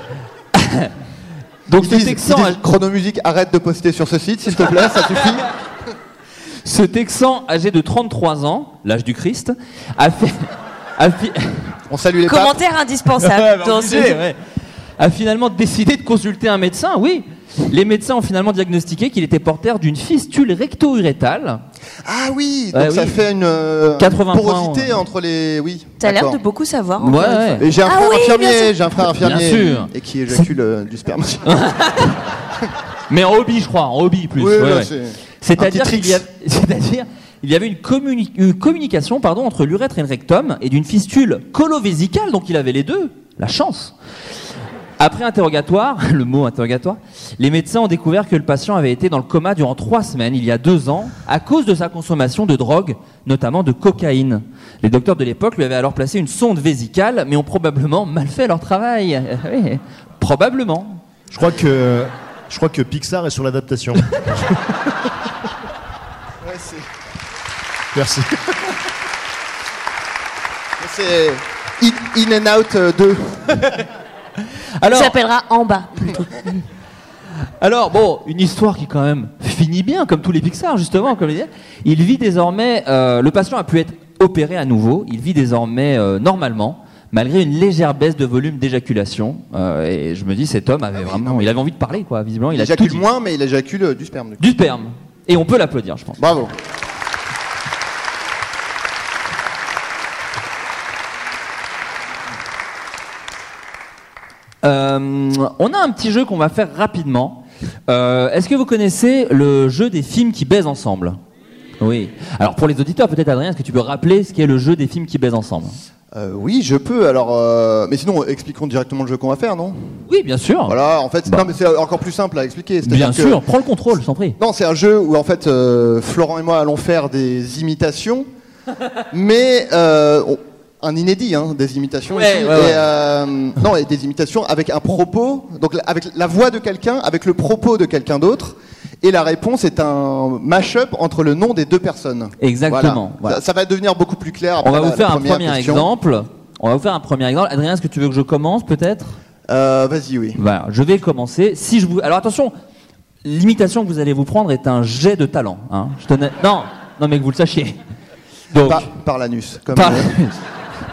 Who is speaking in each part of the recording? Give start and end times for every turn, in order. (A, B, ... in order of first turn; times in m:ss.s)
0:00.5-0:00.9 A
0:01.7-0:02.6 A
0:01.8-0:05.4 B
0:06.6-0:11.8 A
0:11.9-0:12.6 B
0:12.2-0:14.2 C
0:13.2-0:14.4 A
0:15.0-0:21.6 A
0:22.0-0:26.4 B
0:22.7-0:23.2 A
0:24.0-0:25.0 A
0:26.0-0:28.8 C
0:27.0-0:27.6 A
0:27.6-0:31.4 B
0:29.2-0:30.4 A
0:31.4-0:32.2 A
0:33.1-0:43.9 A
0:34.4-0:36.2 B
0:45.0-1:01.0 A
1:01.3-1:04.8 D
1:06.4-1:06.8 B
1:07.9-1:08.6 D
1:10.8-1:13.8 B
1:14.8-1:15.1 A
1:14.9-1:16.6 C
1:17.6-1:33.0 A
1:30.9-1:31.5 B
1:32.5-1:34.4 B
1:34.4-1:36.2 A
1:36.2-1:36.5 B
1:44.6-1:51.2 A
1:51.8-1:55.8 A
1:56.1-1:59.8 B
2:00.1-2:01.5 A
2:00.7-2:03.4 B
2:02.8-2:04.4 A
2:04.4-2:08.3 B
2:09.1-2:25.9 B
2:12.1-2:12.8 A
2:22.4-2:23.4 A
2:24.6-2:29.2 A
2:29.5-2:30.4 B
2:30.4-2:32.5 A
2:33.2-2:37.8 A
2:38.5-2:38.9 A
2:38.6-2:40.1 B
2:39.7-2:40.3 A